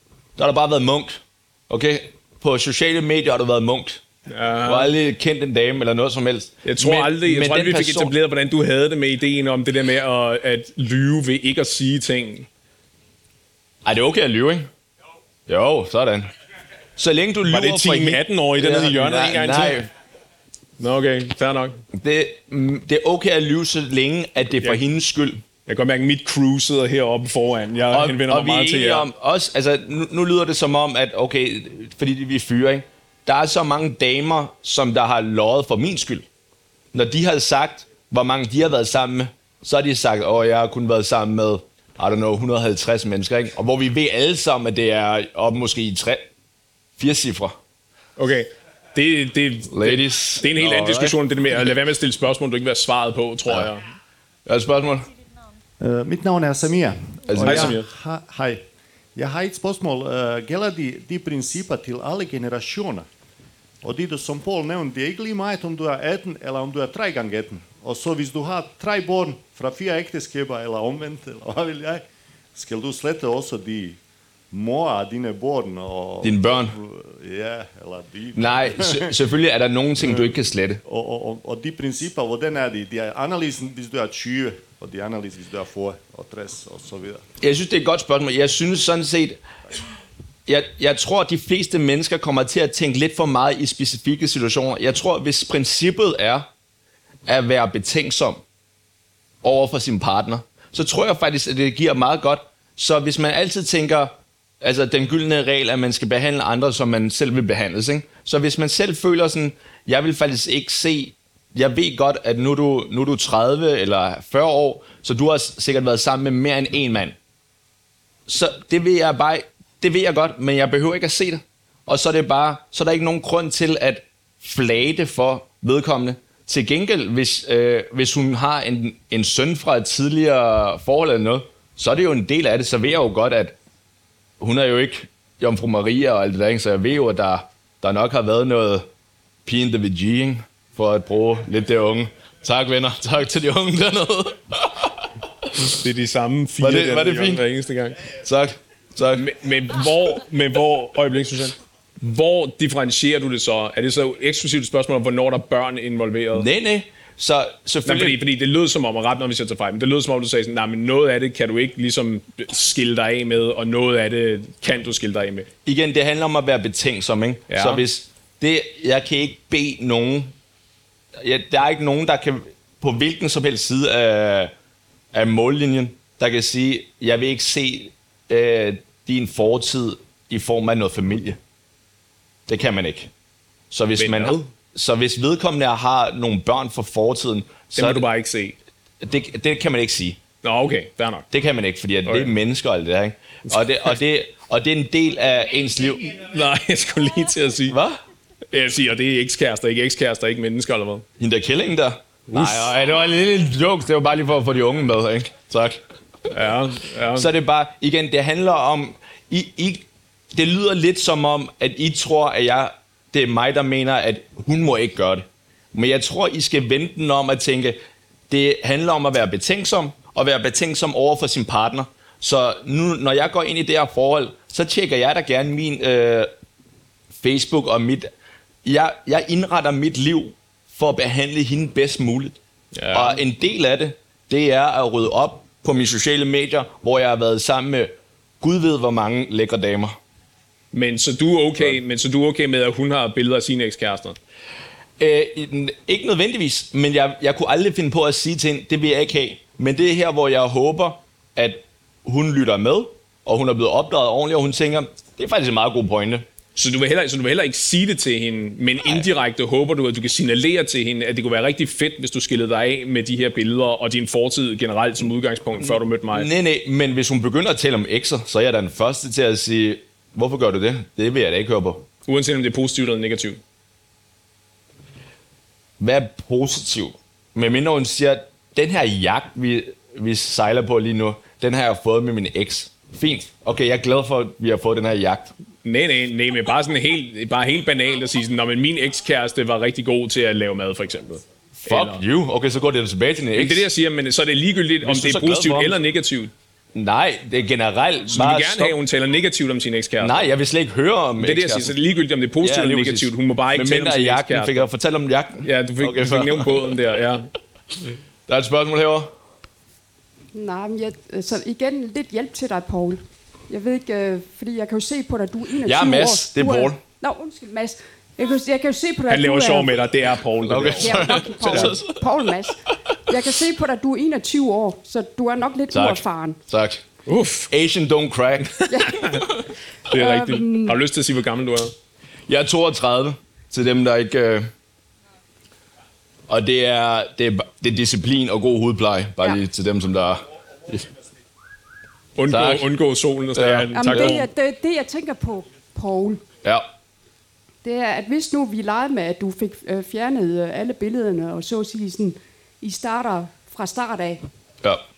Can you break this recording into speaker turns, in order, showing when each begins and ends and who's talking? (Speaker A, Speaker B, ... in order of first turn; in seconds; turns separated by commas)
Speaker A: 0.4-4.0, Speaker B: 4.3-4.9, Speaker A: 4.6-8.1, Speaker B: 6.6-12.5, Speaker A: 13.8-14.7, Speaker A: 15.5-16.3, Speaker A: 17.0-19.9, Speaker B: 17.5-19.8, Speaker B: 20.8-21.8, Speaker A: 21.9-25.4, Speaker B: 25.7-29.1, Speaker A: 27.9-36.2, Speaker A: 36.9-46.3, Speaker A: 47.0-47.6, Speaker B: 48.2-53.9, Speaker A: 49.7-51.2, Speaker A: 54.5-55.1, Speaker C: 55.8-58.6, Speaker A: 57.3-57.8, Speaker B: 57.4-57.9, Speaker C: 59.1-63.1, Speaker C: 63.8-72.0, Speaker C: 72.5-74.0, Speaker C: 74.5-79.2, Speaker A: 76.2-76.8, Speaker A: 78.3-80.8, Speaker C: 80.0-87.2, Speaker A: 87.4-89.4, Speaker A: 90.5-96.5, Speaker A: 97.2-98.4, Speaker A: 99.4-117.2, Speaker A: 118.3-133.6, Speaker A: 134.4-138.9, Speaker A: 139.4-145.5, Speaker B: 145.6-147.9, Speaker A: 146.6-147.4, Speaker A: 148.2-149.3, Speaker B: 149.2-156.5, Speaker A: 156.3-158.2, Speaker B: 157.8-165.5, Speaker A: 165.6-170.3, Speaker B: 167.5-167.8, Speaker A: 171.2-174.5, Speaker A: 175.1-181.4, Speaker A: 182.5-183.1, Speaker A: 183.7-188.1, Speaker B: 184.0-184.4, Speaker B: 187.7-188.6, Speaker A: 189.0-190.2, Speaker B: 190.4-191.2, Speaker A: 191.3-196.2, Speaker B: 192.0-192.3, Speaker B: 196.2-197.8, Speaker A: 197.7-198.0, Speaker B: 198.5-201.0, Speaker A: 201.2-205.8, Speaker B: 202.3-202.7, Speaker B: 206.3-207.3, Speaker A: 207.1-226.3, Speaker A: 227.2-228.1, Speaker A: 228.6-232.4, Speaker B: 232.7-233.2, Speaker A: 232.9-240.0, Speaker B: 240.7-244.2, Speaker A: 245.0-256.2, Speaker B: 256.6-266.3, Speaker A: 265.6-271.9, Speaker B: 272.1-273.4, Speaker A: 275.8-285.3, Speaker B: 285.6-292.0, Speaker A: 291.6-293.7, Speaker B: 293.3-296.3, Speaker A: 294.8-295.8, Speaker A: 296.7-298.8, Speaker B: 298.1-300.3, Speaker A: 300.0-301.7, Speaker B: 301.2-304.7, Speaker A: 302.4-306.7, Speaker B: 305.4-307.3, Speaker A: 308.3-309.1, Speaker D: 310.3-319.9, Speaker A: 315.6-316.8, Speaker B: 319.1-321.8, Speaker A: 320.4-322.0, Speaker D: 320.7-326.4, Speaker A: 325.7-326.8, Speaker B: 327.1-327.5, Speaker A: 327.5-328.6, Speaker B: 328.6-329.2, Speaker D: 328.7-329.2, Speaker B: 329.9-331.7, Speaker D: 329.9-330.8, Speaker A: 332.3-334.5, Speaker A: 336.3-340.9, Speaker B: 342.1-344.3, Speaker A: 342.3-342.7, Speaker A: 343.3-344.2, Speaker D: 343.7-346.2, Speaker D: 347.6-354.2